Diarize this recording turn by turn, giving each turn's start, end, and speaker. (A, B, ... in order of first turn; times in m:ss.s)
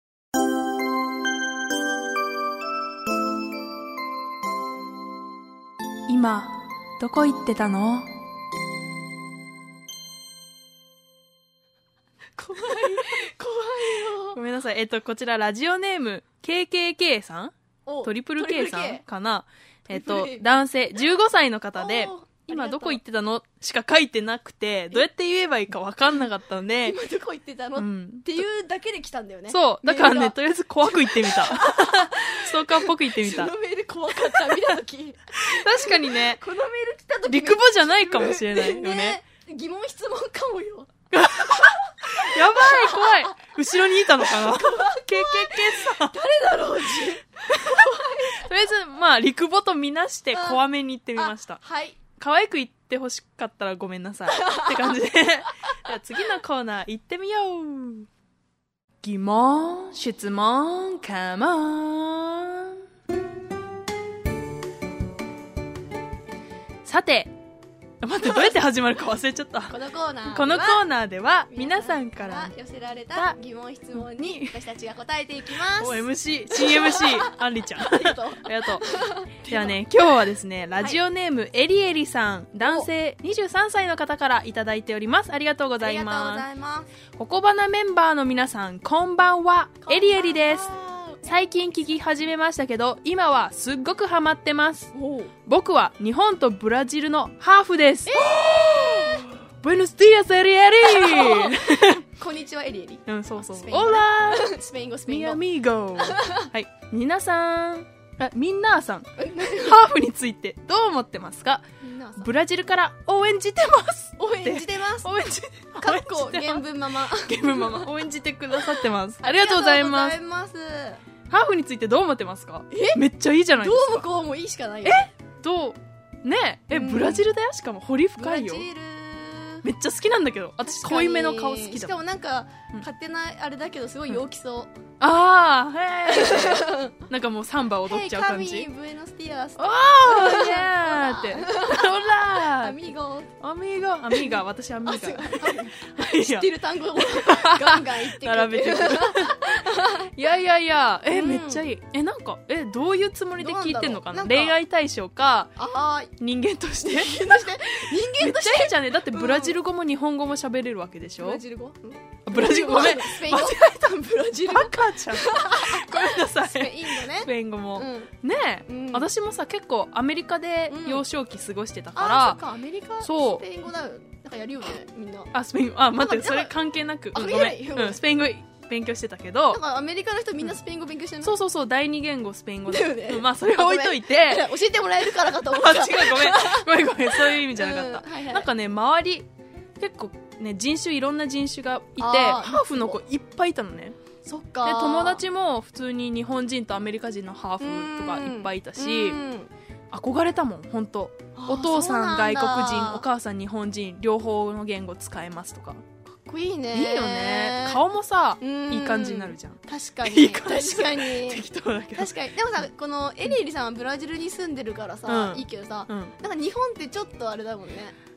0:06.1-0:08.2 A
0:12.4-0:14.4 B
0:12.6-0:13.2 A
0:14.3-0:17.5 A
0:17.8-0:19.0 B
0:18.0-0:27.0 A
0:19.9-0:20.6 B
0:21.8-0:23.0 B
0:26.8-0:40.9 B
0:27.8-0:28.4 A
0:29.5-0:33.5 A
0:34.2-0:34.8 A
0:35.4-0:36.4 A
0:37.3-0:39.2 A
0:41.1-0:46.2 A
0:41.6-0:43.4 B
0:44.0-0:48.5 B
0:47.5-0:51.6 A
0:50.3-0:50.6 B
0:51.2-0:52.0 B
0:52.2-0:58.1 A
0:54.3-0:55.0 B
0:59.0-1:02.8 A
1:06.8-1:07.3 A
1:08.0-1:12.5 A
1:09.7-1:10.8 B
1:11.5-1:19.8 B
1:13.9-1:14.6 A
1:15.6-1:26.4 A
1:22.6-1:22.9 B
1:25.8-1:26.9 B
1:27.2-1:30.7 A
1:29.8-1:31.4 B
1:31.2-1:34.9 A
1:34.9-1:35.3 B
1:35.4-1:42.0 A
1:38.1-1:39.3 B
1:40.8-1:45.4 B
1:43.1-1:51.6 A
1:46.0-1:46.5 B
1:49.2-1:49.8 B
1:51.8-1:52.3 B
1:52.2-2:00.2 A
1:54.2-1:55.1 B
1:55.8-1:57.9 B
1:59.2-2:01.0 B
2:01.3-2:04.1 A
2:02.7-2:03.0 B
2:03.6-2:05.0 B
2:04.8-2:08.6 A
2:06.7-2:07.2 B
2:08.2-2:09.6 B
2:09.6-2:12.0 A
2:10.6-2:14.7 B
2:15.0-2:18.7 A
2:16.0-2:17.0 B
2:17.8-2:23.3 B
2:19.6-2:35.5 A
2:24.1-2:30.2 B
2:31.1-2:31.6 B
2:33.4-2:34.6 B
2:35.6-2:36.1 B
2:36.2-2:41.4 A
2:36.8-2:39.6 B
2:41.2-2:48.1 B
2:42.2-2:52.4 A
2:48.7-2:49.1 B
2:50.7-2:51.0 B
2:52.0-2:55.3 B
2:53.0-2:53.4 A
2:55.3-2:59.6 A
2:56.0-2:56.5 B
2:57.1-2:58.0 B
2:59.5-3:01.3 B
3:01.2-3:04.4 A
3:02.7-3:08.5 B
3:05.2-3:09.3 A
3:09.8-3:14.0 A
3:12.0-3:13.0 B
3:14.2-3:15.2 B
3:14.6-3:19.2 A
3:17.6-3:19.5 B
3:19.9-3:25.8 A
3:21.3-3:23.0 B
3:26.0-3:27.8 B
3:26.7-3:32.1 A
3:28.4-3:31.4 B
3:31.9-3:38.0 B
3:35.0-3:36.1 A